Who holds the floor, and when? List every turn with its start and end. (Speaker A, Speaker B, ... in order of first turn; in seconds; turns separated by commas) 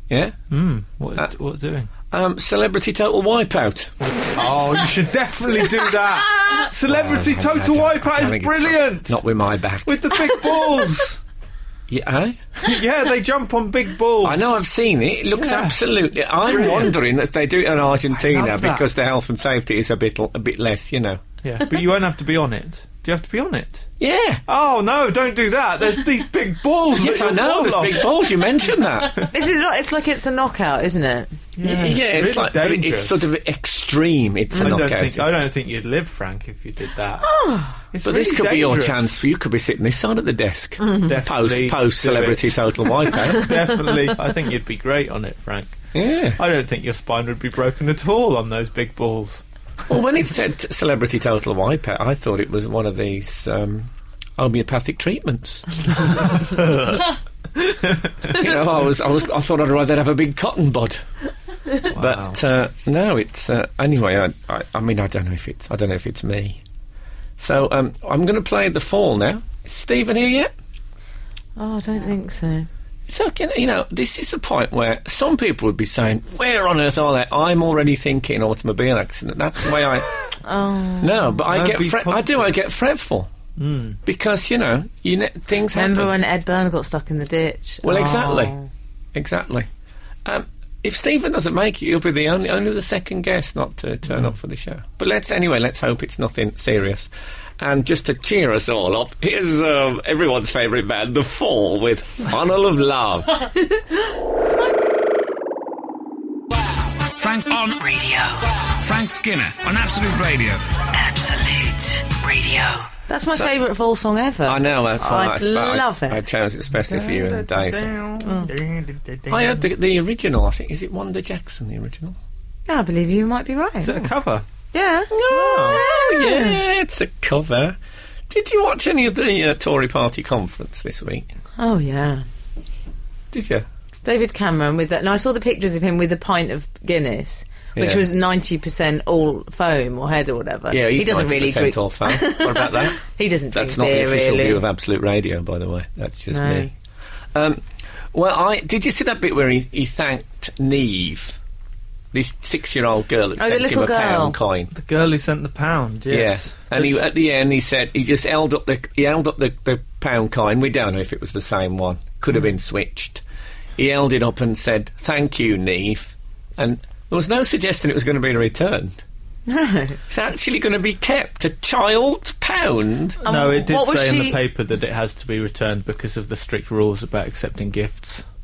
Speaker A: 0.1-0.4, Speaker B: 0.5-1.9, Speaker A: 2.1-4.0, Speaker B: 4.3-9.2, Speaker A: 6.8-10.0, Speaker B: 9.8-11.2, Speaker A: 11.9-12.4, Speaker B: 12.6-14.5, Speaker A: 14.2-21.2, Speaker B: 15.3-15.8, Speaker B: 16.4-17.0, Speaker B: 18.1-18.9, Speaker B: 21.4-23.9, Speaker A: 24.0-24.4, Speaker B: 24.5-28.1, Speaker A: 26.9-29.3, Speaker C: 29.3-31.3, Speaker B: 31.6-33.2, Speaker A: 31.6-35.3, Speaker C: 34.5-34.8, Speaker B: 34.6-37.3, Speaker C: 37.2-37.8, Speaker B: 37.9-39.0, Speaker A: 38.0-43.7, Speaker B: 41.0-45.8, Speaker A: 45.9-46.4, Speaker B: 46.4-49.4, Speaker A: 49.9-56.5, Speaker B: 56.5-57.0, Speaker A: 58.3-61.1, Speaker A: 61.9-66.6, Speaker B: 61.9-62.4, Speaker A: 67.4-70.5, Speaker C: 71.6-72.7, Speaker A: 73.1-80.1, Speaker C: 80.4-81.3, Speaker A: 81.0-83.3, Speaker B: 81.5-82.5, Speaker B: 83.6-84.0, Speaker A: 84.0-86.1, Speaker C: 85.7-88.7, Speaker A: 87.8-88.5, Speaker A: 89.1-89.7, Speaker A: 90.2-103.5, Speaker C: 104.5-104.7, Speaker D: 107.2-107.8, Speaker E: 107.7-108.7, Speaker D: 108.8-110.6, Speaker E: 110.9-112.9, Speaker C: 113.1-116.2, Speaker A: 113.3-113.5, Speaker A: 114.5-117.9, Speaker B: 116.8-119.6, Speaker C: 118.2-118.5, Speaker A: 119.3-122.2, Speaker C: 122.7-124.1, Speaker B: 123.8-124.5, Speaker C: 124.7-126.6, Speaker A: 125.1-127.8, Speaker B: 125.3-125.8, Speaker A: 128.3-131.3, Speaker C: 131.6-132.2, Speaker A: 133.3-133.7, Speaker C: 134.1-144.6, Speaker A: 137.8-138.0, Speaker A: 140.7-143.0, Speaker A: 143.5-146.7, Speaker C: 146.3-146.7, Speaker A: 147.3-151.4, Speaker A: 152.1-154.7, Speaker C: 153.4-154.4, Speaker B: 154.7-157.0, Speaker A: 156.1-163.2, Speaker A: 163.8-169.0, Speaker C: 169.5-170.0, Speaker A: 170.1-173.2, Speaker C: 173.2-174.4, Speaker B: 173.2-178.2